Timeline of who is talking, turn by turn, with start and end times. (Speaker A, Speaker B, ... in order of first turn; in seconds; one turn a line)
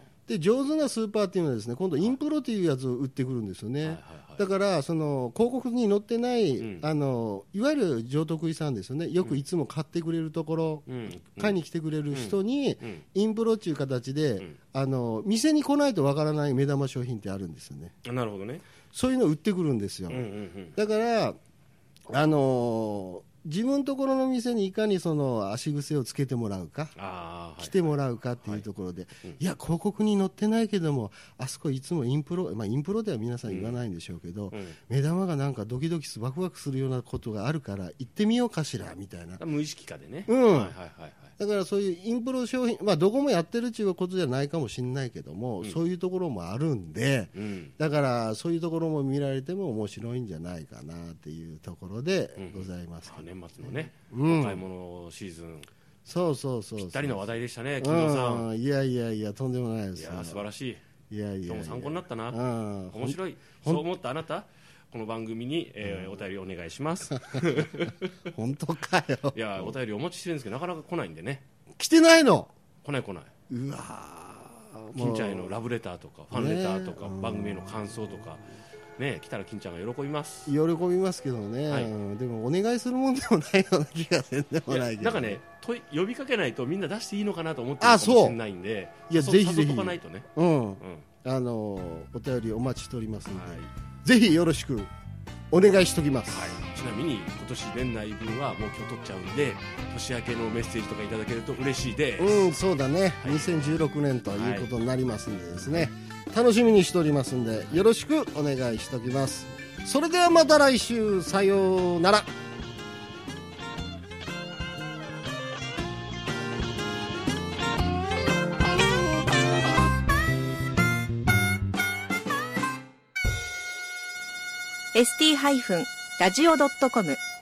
Speaker A: 0.3-17.9
Speaker B: 3.8-4.5
Speaker B: 6.6-6.9
Speaker B: 10.9-11.6
Speaker B: 12.1-13.0
Speaker B: 18.0-18.6
Speaker A: 18.9-21.4
Speaker B: 20.1-20.8
Speaker A: 22.1-26.9
Speaker B: 26.9-28.7
Speaker A: 27.6-39.4
Speaker B: 33.5-33.8
Speaker B: 34.5-34.8
Speaker B: 39.4-41.3
Speaker A: 40.3-40.8
Speaker A: 41.4-54.6
Speaker B: 47.3-47.8
Speaker B: 52.4-55.7
Speaker A: 56.1-57.2
Speaker B: 56.8-58.5
Speaker A: 57.8-60.5
Speaker B: 60.0-60.8
Speaker A: 61.1-63.9
Speaker B: 61.5-62.4
Speaker B: 62.9-68.2
Speaker A: 65.8-66.2
Speaker A: 67.2-69.8
Speaker B: 69.3-71.4
Speaker A: 71.8-72.5
Speaker B: 72.8-73.3
Speaker A: 73.5-75.5
Speaker B: 75.0-78.5
Speaker A: 76.3-78.3
Speaker B: 79.0-80.5
Speaker A: 80.5-85.4
Speaker B: 81.7-81.9
Speaker B: 84.7-91.1
Speaker A: 87.8-88.4
Speaker A: 89.1-94.9
Speaker B: 93.3-93.7
Speaker A: 95.5-96.6
Speaker B: 96.3-102.6
Speaker A: 102.2-112.3
Speaker B: 103.2-103.5
Speaker B: 104.3-104.7
Speaker C: 124.9-127.2